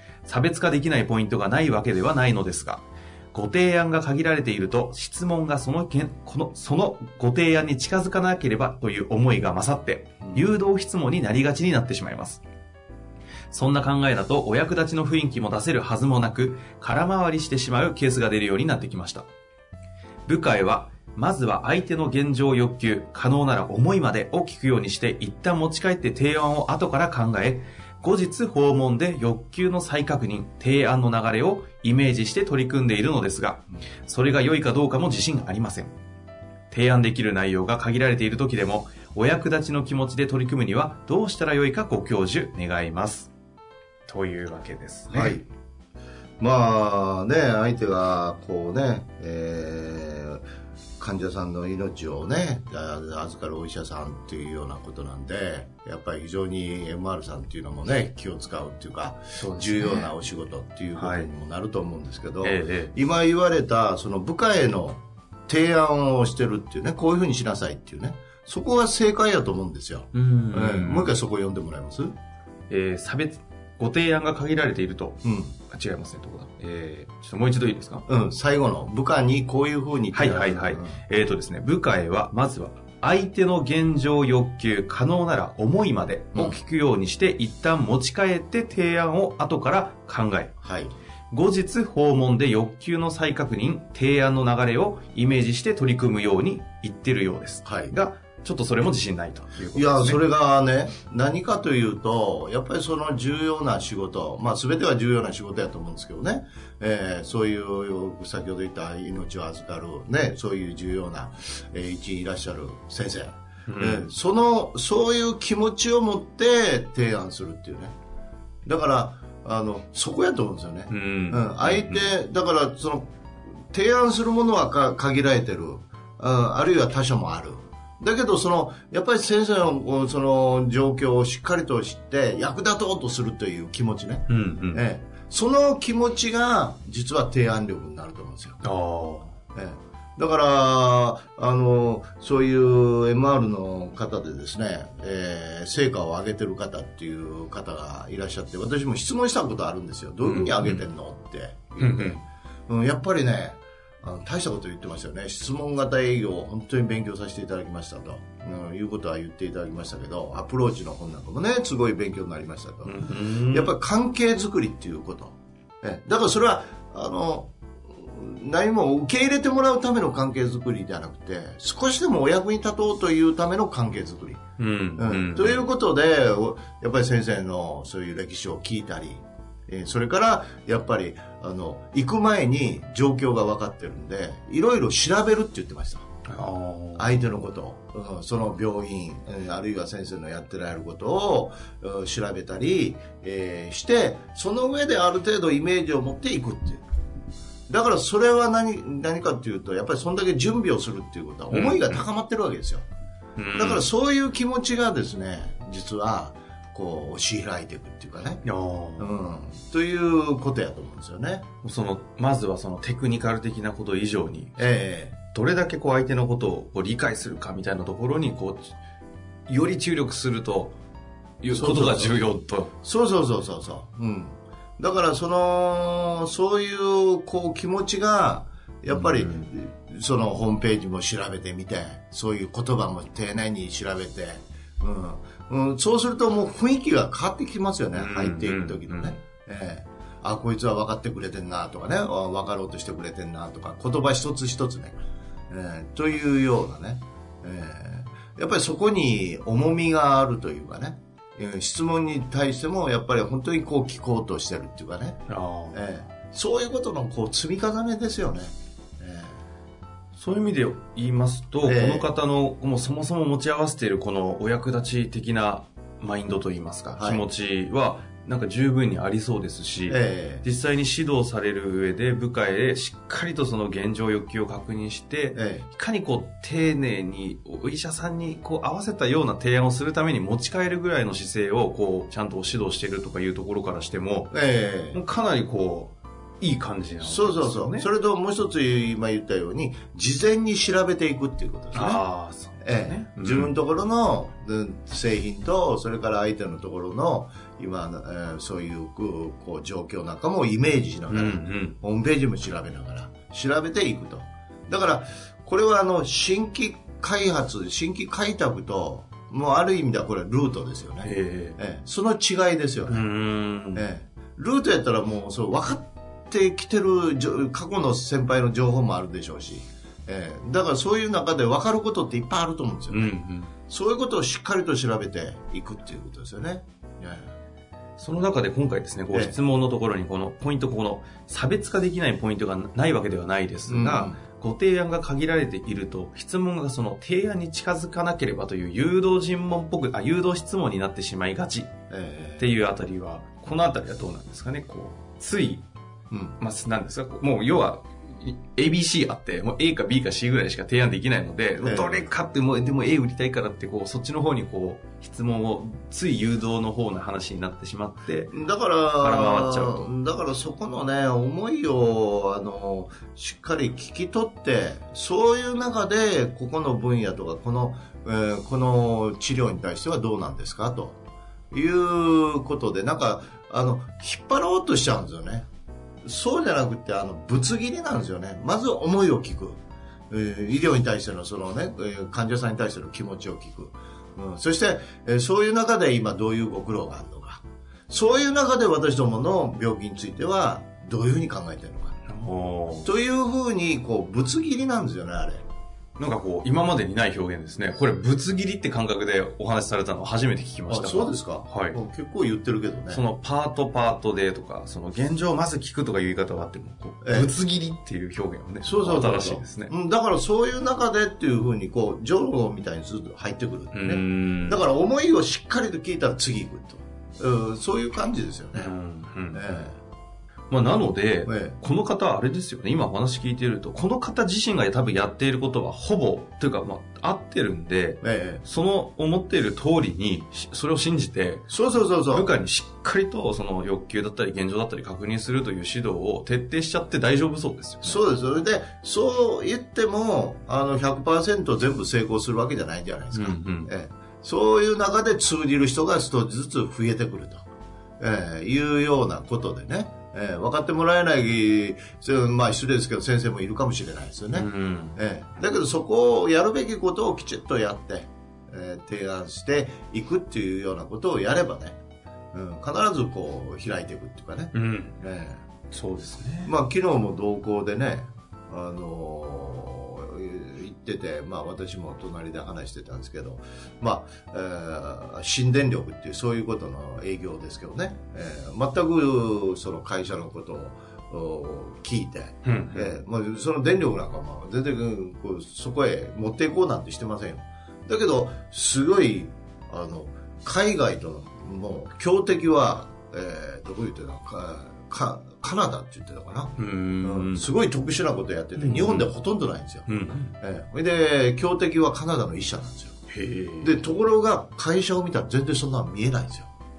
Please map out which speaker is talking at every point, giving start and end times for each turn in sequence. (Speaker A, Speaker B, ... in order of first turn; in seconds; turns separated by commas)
Speaker A: 0.2-12.4, Speaker B: 10.2-10.5, Speaker A: 13.5-19.3, Speaker A: 20.3-35.9, Speaker A: 36.7-43.3, Speaker A: 44.1-45.4, Speaker B: 45.1-45.4, Speaker B: 46.4-50.4, Speaker B: 51.0-72.1, Speaker A: 59.4-60.1, Speaker A: 61.0-61.3, Speaker A: 62.4-62.9, Speaker A: 70.1-71.2, Speaker A: 72.7-78.0, Speaker B: 75.2-75.5, Speaker B: 78.1-81.0, Speaker A: 80.1-90.5, Speaker B: 86.3-86.6, Speaker B: 90.6-90.9, Speaker A: 91.3-100.2, Speaker B: 97.6-97.9, Speaker B: 99.7-117.9, Speaker A: 113.7-114.1, Speaker B: 118.6-123.1, Speaker A: 120.9-122.1, Speaker B: 123.7-138.6, Speaker A: 134.3-134.8, Speaker A: 138.6-139.3, Speaker B: 139.5-174.4, Speaker A: 150.2-150.9, Speaker A: 151.8-152.2, Speaker A: 162.8-163.7, Speaker A: 174.6-175.7, Speaker B: 175.0-186.0, Speaker A: 186.3-187.2, Speaker B: 186.9-196.8, Speaker B: 197.7-202.8, Speaker A: 201.5-202.0, Speaker A: 203.4-203.9, Speaker B: 203.5-208.4, Speaker A: 208.4-209.1, Speaker B: 209.0-211.4, Speaker A: 211.6-214.7, Speaker B: 214.6-215.2, Speaker A: 215.3-218.7, Speaker A: 219.5-220.8, Speaker A: 221.4-222.7, Speaker B: 221.5-222.2, Speaker B: 222.8-245.0, Speaker A: 228.9-229.5, Speaker A: 237.9-239.2, Speaker B: 245.5-259.4, Speaker A: 255.3-255.8, Speaker A: 260.1-284.3, Speaker B: 261.6-262.1, Speaker B: 267.0-267.2, Speaker B: 269.9-270.4, Speaker B: 275.3-275.6, Speaker B: 284.3-285.0, Speaker A: 284.9-287.9, Speaker B: 287.0-292.0, Speaker A: 291.7-293.6, Speaker B: 292.6-313.0, Speaker A: 301.1-301.8, Speaker A: 311.0-311.6, Speaker A: 312.9-313.9, Speaker B: 313.7-323.2, Speaker A: 322.9-323.5, Speaker B: 323.7-327.3, Speaker A: 328.0-341.7, Speaker B: 333.7-334.2, Speaker B: 341.9-342.5, Speaker A: 342.4-345.6, Speaker B: 346.1-346.4, Speaker A: 346.4-358.3, Speaker B: 351.6-352.1, Speaker B: 358.3-371.0, Speaker A: 359.0-359.9, Speaker B: 371.5-375.4, Speaker B: 376.0-379.6, Speaker B: 380.1-392.0, Speaker A: 392.1-392.9, Speaker B: 392.8-395.4, Speaker A: 396.0-401.8, Speaker B: 400.7-403.0, Speaker A: 402.9-409.7, Speaker B: 407.0-407.3, Speaker B: 408.6-418.7, Speaker A: 413.7-414.6, Speaker A: 418.5-419.4, Speaker B: 419.3-419.8, Speaker A: 420.5-438.0, Speaker B: 421.2-421.6, Speaker B: 428.0-428.4, Speaker B: 431.5-432.3, Speaker B: 437.8-447.4, Speaker A: 443.1-443.7, Speaker B: 448.0-461.8, Speaker A: 454.3-455.0, Speaker B: 462.3-465.4, Speaker A: 464.5-465.0, Speaker A: 465.7-466.5, Speaker B: 466.4-499.9, Speaker A: 482.4-482.9, Speaker A: 496.6-497.4, Speaker A: 498.6-499.1, Speaker A: 499.9-500.4, Speaker B: 500.4-502.9, Speaker A: 503.1-503.8, Speaker B: 503.6-506.5